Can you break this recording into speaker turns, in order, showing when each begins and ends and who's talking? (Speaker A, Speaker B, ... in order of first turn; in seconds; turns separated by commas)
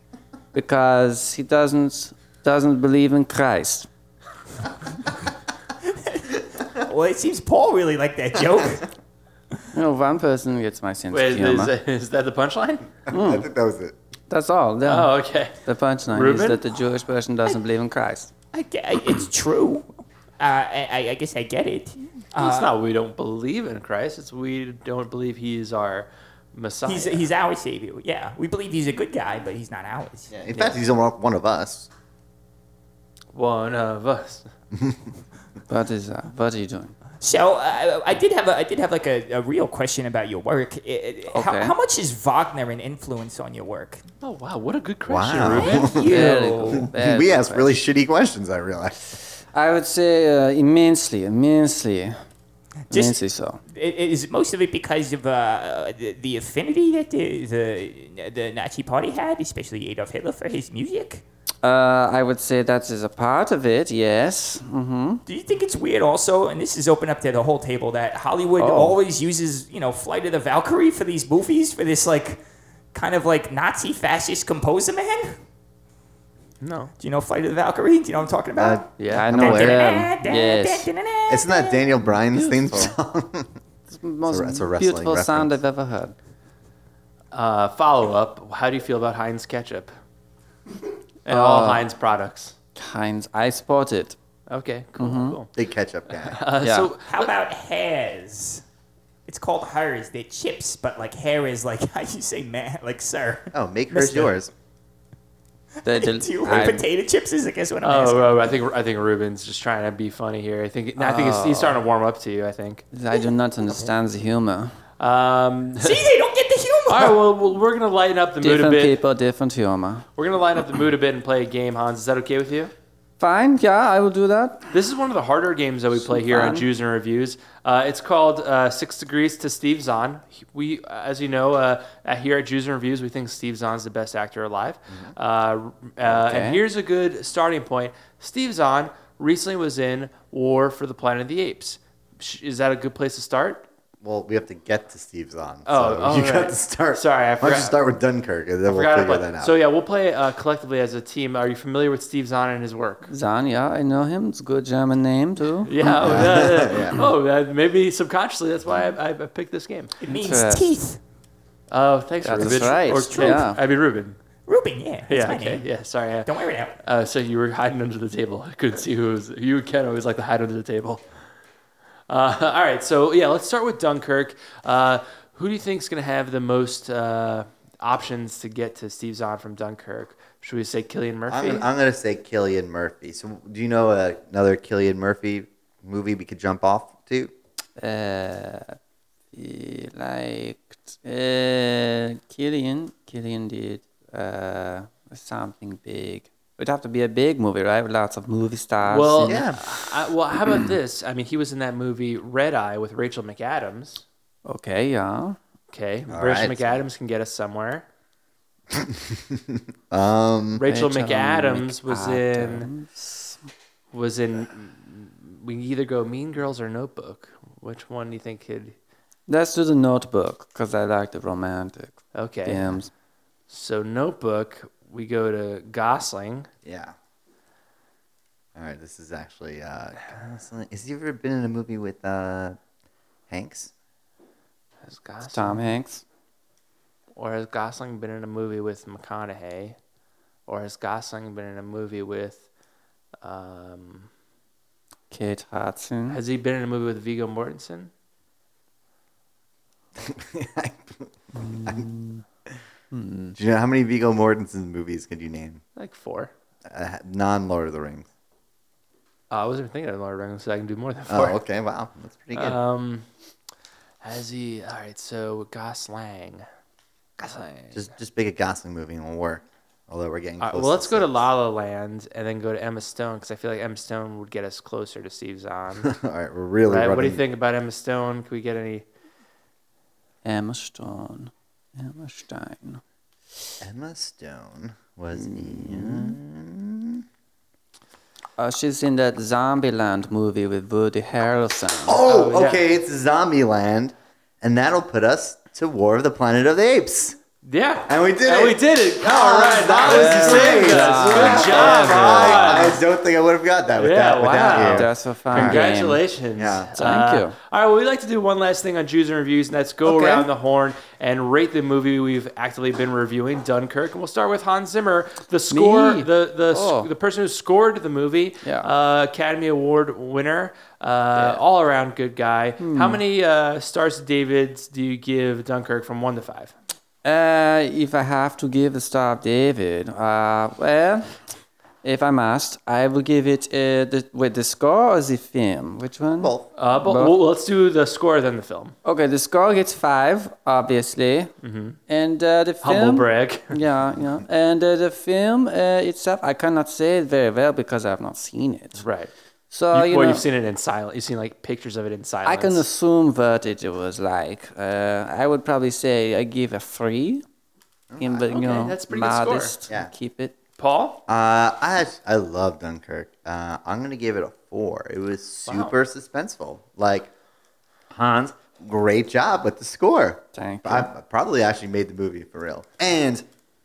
Speaker A: 0.5-3.9, Speaker B: 6.3-8.9, Speaker A: 9.7-11.7, Speaker C: 11.1-12.9, Speaker D: 13.1-14.0, Speaker A: 13.1-13.5, Speaker A: 14.3-18.3, Speaker C: 14.8-15.6, Speaker C: 16.1-16.6, Speaker B: 18.5-22.7, Speaker C: 22.4-27.3, Speaker B: 26.9-30.8, Speaker D: 30.3-31.9, Speaker C: 33.3-34.5, Speaker D: 34.8-35.0, Speaker A: 35.7-37.0, Speaker B: 37.2-44.0, Speaker A: 41.3-41.8, Speaker C: 44.2-46.0, Speaker D: 45.1-49.2, Speaker B: 45.4-46.9, Speaker A: 46.1-47.8, Speaker A: 49.5-52.2, Speaker B: 52.9-61.2, Speaker A: 52.9-53.6, Speaker A: 61.6-65.2, Speaker B: 65.3-72.4, Speaker A: 68.6-69.0, Speaker B: 72.9-75.4, Speaker C: 76.6-76.9, Speaker B: 77.0-81.8, Speaker D: 78.6-79.8, Speaker C: 79.0-79.3, Speaker A: 79.1-80.9, Speaker D: 81.3-83.6, Speaker A: 82.1-82.9, Speaker A: 83.9-86.2, Speaker D: 84.3-85.6, Speaker C: 87.3-89.9, Speaker C: 91.3-92.5, Speaker A: 91.3-91.9, Speaker A: 92.8-94.2, Speaker C: 94.5-95.5, Speaker A: 95.0-95.4, Speaker D: 95.6-96.4, Speaker C: 96.1-97.3, Speaker A: 96.6-96.9, Speaker B: 97.0-98.6, Speaker B: 99.3-104.3, Speaker D: 103.5-104.5, Speaker A: 105.8-106.9, Speaker B: 105.8-108.5, Speaker C: 107.8-112.8, Speaker A: 111.0-111.8, Speaker A: 112.9-114.8, Speaker C: 115.0-116.0, Speaker B: 115.8-117.2, Speaker C: 116.9-119.0, Speaker A: 118.4-120.1, Speaker C: 120.2-122.7, Speaker A: 123.2-124.7, Speaker C: 124.7-143.7, Speaker A: 126.0-126.7, Speaker D: 134.9-135.2, Speaker A: 136.0-136.6, Speaker D: 144.0-149.6, Speaker C: 145.7-147.8, Speaker C: 148.7-153.1, Speaker A: 153.1-156.9, Speaker C: 155.7-160.0, Speaker D: 156.0-157.1, Speaker B: 160.0-161.0, Speaker A: 160.2-160.7, Speaker C: 161.7-164.2, Speaker A: 162.2-163.6, Speaker B: 162.4-163.5, Speaker B: 164.5-165.7, Speaker C: 165.1-171.0, Speaker B: 166.3-166.8, Speaker C: 172.1-181.7, Speaker D: 181.3-187.3, Speaker A: 187.8-188.8, Speaker A: 189.3-199.8, Speaker C: 198.9-204.1, Speaker D: 199.3-199.6, Speaker A: 204.5-205.4, Speaker C: 205.7-207.8, Speaker D: 206.1-206.8, Speaker D: 208.7-210.6, Speaker C: 210.6-212.7, Speaker A: 210.6-213.4, Speaker C: 213.9-218.8, Speaker A: 219.3-222.9, Speaker C: 222.2-222.8, Speaker C: 223.5-226.5, Speaker D: 226.6-226.9, Speaker D: 228.6-232.6, Speaker D: 233.3-233.7, Speaker C: 234.8-235.6, Speaker A: 235.3-236.0, Speaker C: 237.2-239.8, Speaker C: 240.5-242.4, Speaker C: 243.2-244.1, Speaker A: 245.1-246.2, Speaker C: 246.1-247.9, Speaker D: 250.0-251.9, Speaker A: 251.4-252.2, Speaker A: 252.9-253.4, Speaker D: 253.3-255.6, Speaker C: 255.8-256.3, Speaker D: 256.7-258.1, Speaker C: 259.3-261.4, Speaker D: 261.1-262.6, Speaker C: 262.4-263.1, Speaker C: 264.0-266.5, Speaker C: 267.2-267.9, Speaker D: 267.7-271.2, Speaker C: 270.4-275.9, Speaker D: 275.8-277.2, Speaker C: 276.7-278.9, Speaker A: 280.2-282.8, Speaker D: 283.6-287.0, Speaker A: 285.2-286.2, Speaker A: 288.4-292.1, Speaker D: 291.9-297.2, Speaker C: 292.0-292.6, Speaker C: 297.4-302.8, Speaker D: 297.9-305.7, Speaker A: 299.8-302.8, Speaker C: 303.8-326.6, Speaker A: 304.6-306.0, Speaker D: 306.4-306.7, Speaker A: 306.8-307.4, Speaker A: 309.9-310.3, Speaker A: 315.5-316.9, Speaker A: 318.4-318.7, Speaker A: 321.2-321.4, Speaker A: 322.6-323.0, Speaker A: 327.0-331.1, Speaker A: 331.8-337.2, Speaker D: 336.2-336.5, Speaker C: 336.6-338.8, Speaker A: 338.9-341.3, Speaker C: 341.4-341.8, Speaker A: 341.9-348.9, Speaker C: 342.6-343.6, Speaker C: 348.8-349.1, Speaker A: 349.5-350.2, Speaker C: 349.7-352.7, Speaker A: 352.3-357.2, Speaker D: 357.9-358.4, Speaker A: 358.0-360.3, Speaker C: 358.3-359.5, Speaker C: 360.6-361.0, Speaker D: 361.1-367.1, Speaker C: 365.5-365.8, Speaker D: 367.9-373.3, Speaker A: 370.3-370.9